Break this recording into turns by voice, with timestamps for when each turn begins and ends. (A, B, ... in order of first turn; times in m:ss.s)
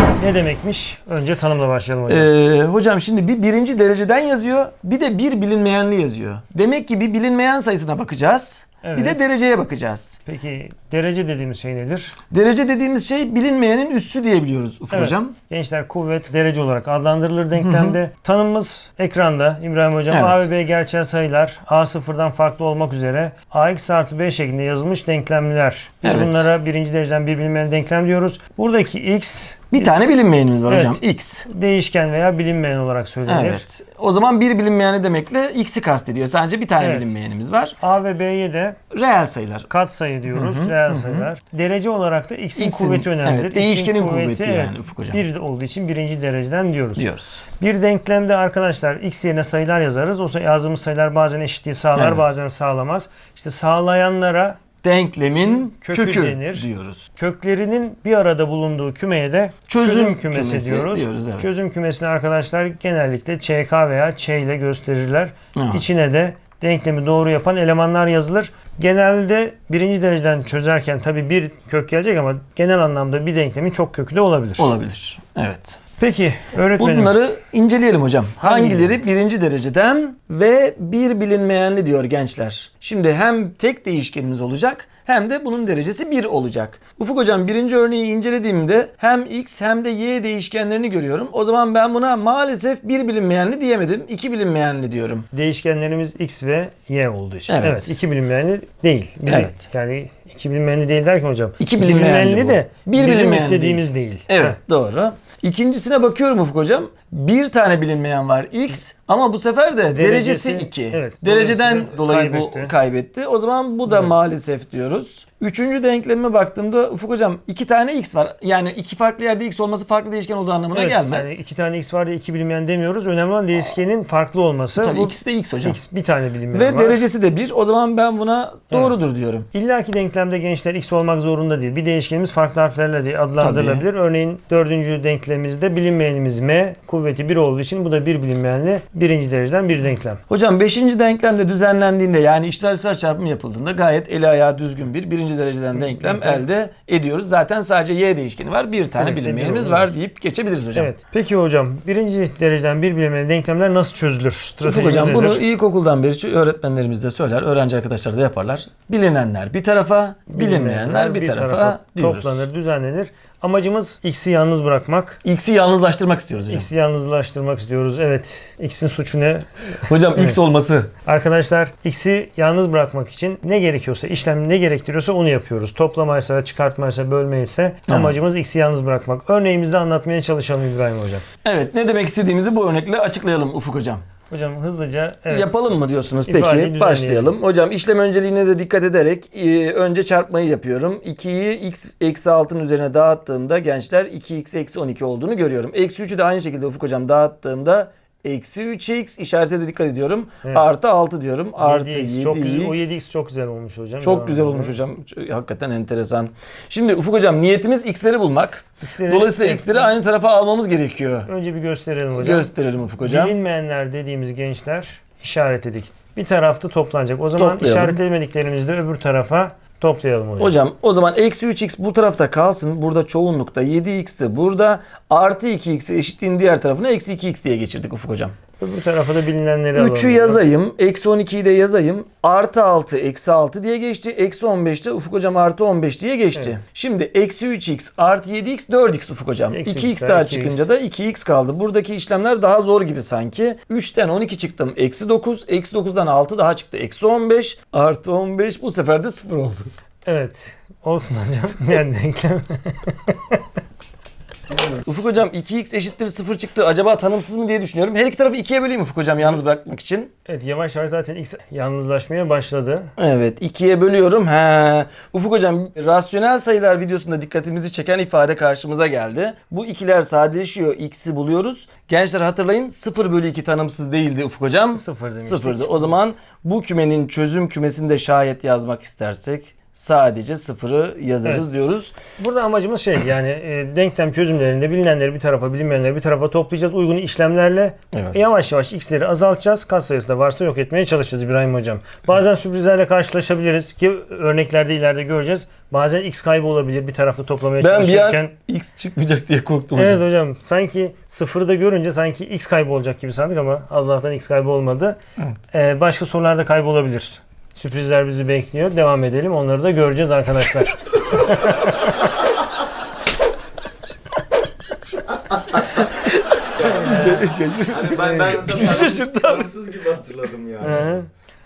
0:00.2-0:02.3 A
0:02.1-0:10.2 B
0:08.8-0:09.2 A
0:10.2-0:12.2 A
0:12.3-0:15.3 B
0:14.9-0:29.9 A
0:17.6-0:18.0 B
0:20.1-0:20.4 B
0:26.0-0:26.5 B
0:29.7-0:31.4 B
0:30.7-0:33.6 A
0:33.2-0:37.8 B
0:36.8-0:37.1 A
0:37.8-0:38.8 A
0:38.9-0:39.7 B
0:39.7-0:54.6 A
0:40.3-0:41.3 B
0:42.6-0:45.2 B
0:47.0-0:47.4 B
0:51.9-0:52.2 B
0:54.8-0:57.0 B
0:55.4-1:14.7 A
0:59.7-1:01.5 B
1:05.6-1:05.9 B
1:14.6-1:15.8 B
1:16.0-1:17.1 A
1:16.8-1:35.3 B
1:18.4-1:19.0 A
1:35.3-1:44.6 A
1:37.5-1:37.9 B
1:39.2-1:39.6 B
1:41.6-2:01.4 B
1:49.9-1:52.7 A
1:53.9-1:54.1 A
2:00.7-2:07.0 A
2:04.8-2:05.8 B
2:06.5-2:09.5 B
2:08.7-2:09.0 A
2:09.5-2:20.2 A
2:13.4-2:13.8 B
2:20.3-2:30.9 B
2:25.7-2:26.4 A
2:29.0-2:29.9 A
2:30.8-2:35.4 A
2:34.6-2:42.5 B
2:40.3-2:45.2 A
2:45.2-2:46.7 B
2:46.5-2:50.4 A
2:49.8-2:50.9 B
2:51.0-3:01.2 A
2:57.9-2:58.2 B
3:01.4-3:04.0 B
3:04.3-3:05.5 A
3:05.3-3:23.0 B
3:06.3-3:07.3 A
3:21.6-3:24.8 A
3:24.0-3:31.3 B
3:28.8-3:29.9 A
3:31.2-3:32.5 A
3:32.2-3:33.4 B
3:33.0-3:40.5 A
3:37.4-3:38.0 B
3:40.4-3:48.4 B
3:48.6-3:50.4 A
3:49.7-4:09.7 B
3:59.5-4:00.7 A
4:10.0-4:13.4 A
4:14.7-4:20.1 B
4:20.2-4:22.9 A
4:23.0-4:41.9 B
4:34.7-4:36.0 A
4:42.2-4:58.3 A
4:47.9-4:48.2 B
4:57.6-5:00.0 B
4:59.8-5:05.0 A
5:05.5-5:12.1 A
5:15.8-5:16.1 B
5:16.6-5:21.0 C
5:16.6-5:19.5 B
5:20.6-5:21.1 A